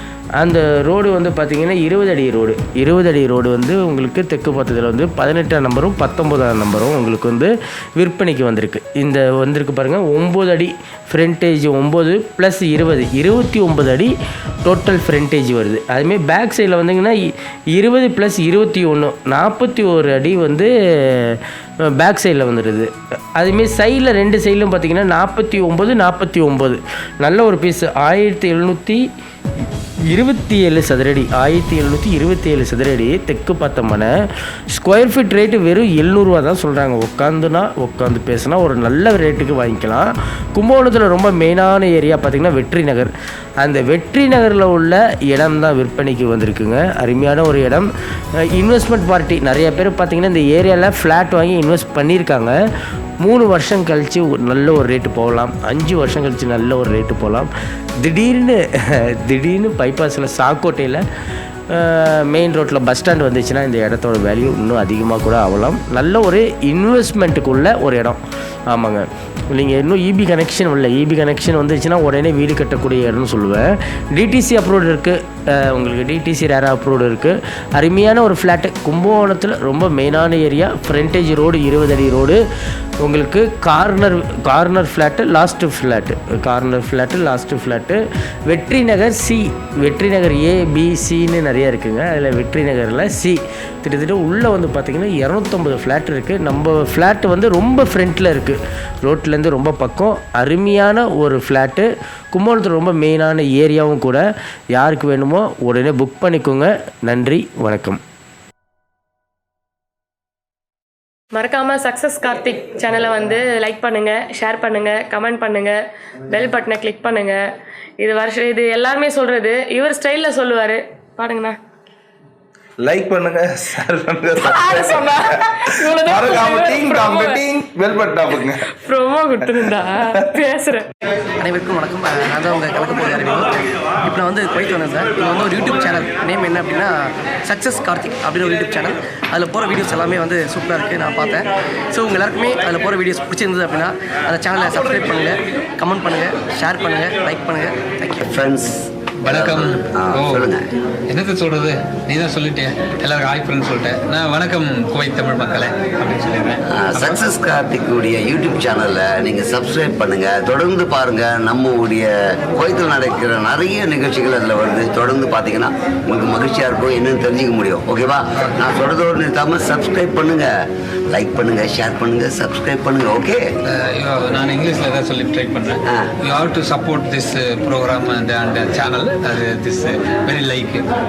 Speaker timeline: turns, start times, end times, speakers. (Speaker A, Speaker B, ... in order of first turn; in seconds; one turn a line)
Speaker A: 0.4-14.1
Speaker A: 14.7-29.0
Speaker A: 30.1-34.1
Speaker A: 34.7-47.9
Speaker A: 48.4-52.5
Speaker A: 53.2-57.5
Speaker A: 58.0-61.0
Speaker A: 61.7-68.2
Speaker A: 68.7-82.4
Speaker A: 83.0-104.2
Speaker A: 104.8-108.0
Speaker B: 111.3-121.6
Speaker C: 122.8-128.8
Speaker B: 124.5-127.5
Speaker B: 128.4-130.9
Speaker C: 129.4-130.4
Speaker D: 131.4-148.3
Speaker E: 148.2-150.7
Speaker F: 149.2-150.5
Speaker F: 151.1-157.2
Speaker E: 156.7-170.5
Speaker E: 171.1-173.4
Speaker F: 173.6-180.9